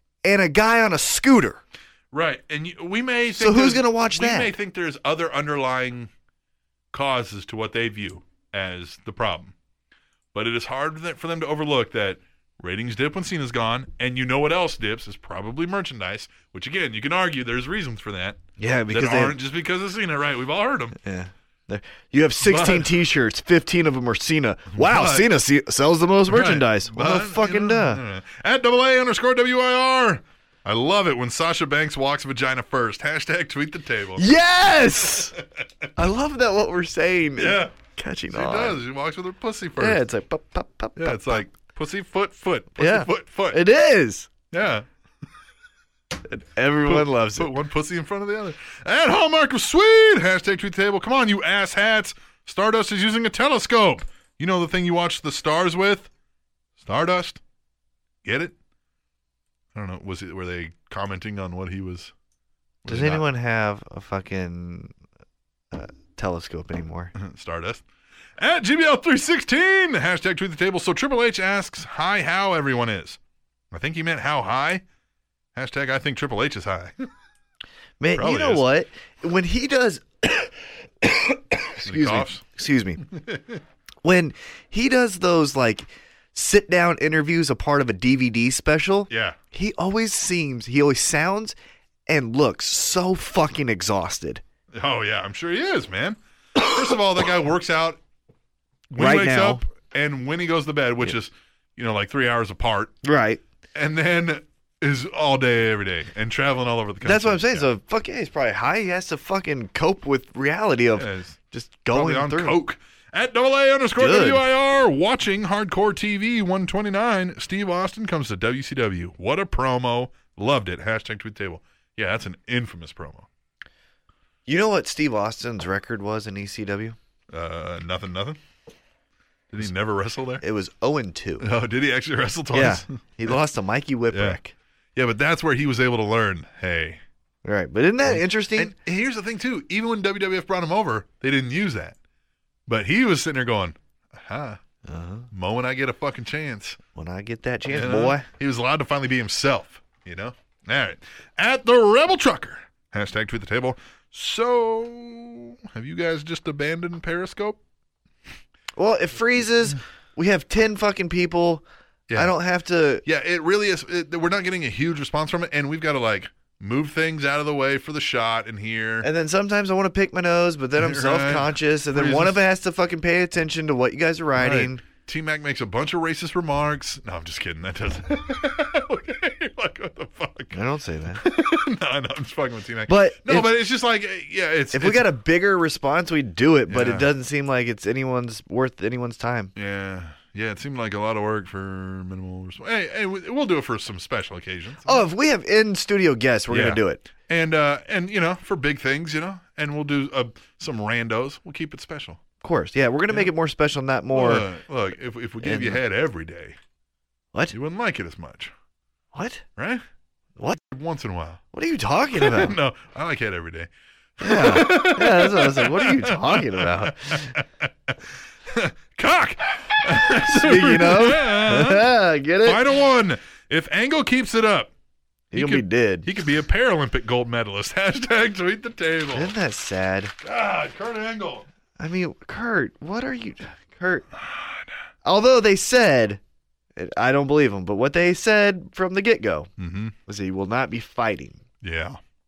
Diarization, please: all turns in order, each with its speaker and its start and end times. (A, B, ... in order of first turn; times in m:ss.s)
0:00.2-0:01.6 A
0:02.1-0:06.1 B
0:03.3-0:04.5 A
0:06.9-0:09.5 B
0:10.3-0:21.0 B
0:18.6-0:19.4 A
0:21.0-0:28.0 A
0:22.4-0:22.9 B
0:24.7-0:25.3 B
0:26.3-0:34.3 B
0:34.2-0:35.4 A
0:35.4-0:35.6 B
0:36.0-0:38.8 A
0:37.4-0:37.7 B
0:38.3-0:40.0 B
0:39.8-0:41.4 A
0:41.0-0:43.6 B
0:42.8-0:44.3 A
0:44.5-0:44.9 B
0:46.3-0:47.5 A
0:46.8-0:56.1 B
0:56.8-0:57.4 B
0:58.2-0:58.5 B
0:59.7-1:02.1 B
1:02.8-1:03.3 B
1:02.9-1:04.9 A
1:05.7-1:07.2 A
1:07.2-1:07.8 B
1:08.4-1:13.2 B
1:13.7-1:14.8 B
1:15.6-1:17.1 B
1:18.0-1:23.0 A
1:18.2-1:18.7 B
1:21.8-1:22.4 B
1:23.1-1:23.6 B
1:24.0-1:31.6 A
1:29.1-1:29.4 B
1:32.1-1:34.4 A
1:34.7-1:38.0 B
1:38.9-1:42.9 B
1:39.0-1:39.6 A
1:43.0-1:43.4 A
1:43.7-1:47.7 B
1:47.0-1:52.6 A
1:51.0-1:51.4 B
1:51.9-2:03.3 B
1:54.0-1:54.5 A
2:04.5-2:07.0 A
2:07.3-2:08.4 B
2:09.5-2:10.4 B
2:10.4-2:11.5 A
2:11.4-2:13.4 B
2:12.5-2:14.5 A
2:14.1-2:14.4 B
2:15.0-2:17.0 B
2:17.4-2:18.8 A
2:18.1-2:22.0 B
2:22.7-2:24.6 B
2:24.9-2:25.3 A
2:25.3-2:26.8 B
2:27.0-2:28.3 A
2:27.7-2:37.6 B
2:38.8-2:41.6 A
2:42.2-2:43.0 A
2:43.1-2:49.1 B
2:49.0-2:54.8 A
2:50.8-2:52.4 B
2:54.4-3:00.6 B
3:00.5-3:01.2 A
3:01.2-3:05.1 B
3:02.9-3:03.5 A
3:04.7-3:09.5 A
3:06.7-3:07.1 B
3:09.6-3:15.0 B
3:14.8-3:17.0 A
3:16.5-3:22.2 B
3:22.4-3:24.5 A
3:24.1-3:26.6 B
3:25.4-3:25.8 A
3:27.5-3:28.5 B
3:29.1-3:29.4 A
3:29.6-3:29.8 B
3:30.6-3:31.4 B
3:31.5-3:32.6 A
3:32.2-3:41.9 B
3:34.2-3:37.3 A
3:40.2-3:42.6 A
3:42.4-3:44.7 B
3:45.3-3:46.1 A
3:45.3-3:49.3 B
3:49.1-3:50.1 A
3:50.2-3:51.5 B
3:51.8-3:54.1 A
3:54.2-3:54.6 B
3:55.0-3:56.2 A
3:56.8-3:59.5 A
3:59.6-3:59.9 B
4:00.1-4:01.4 A
4:01.6-4:02.0 B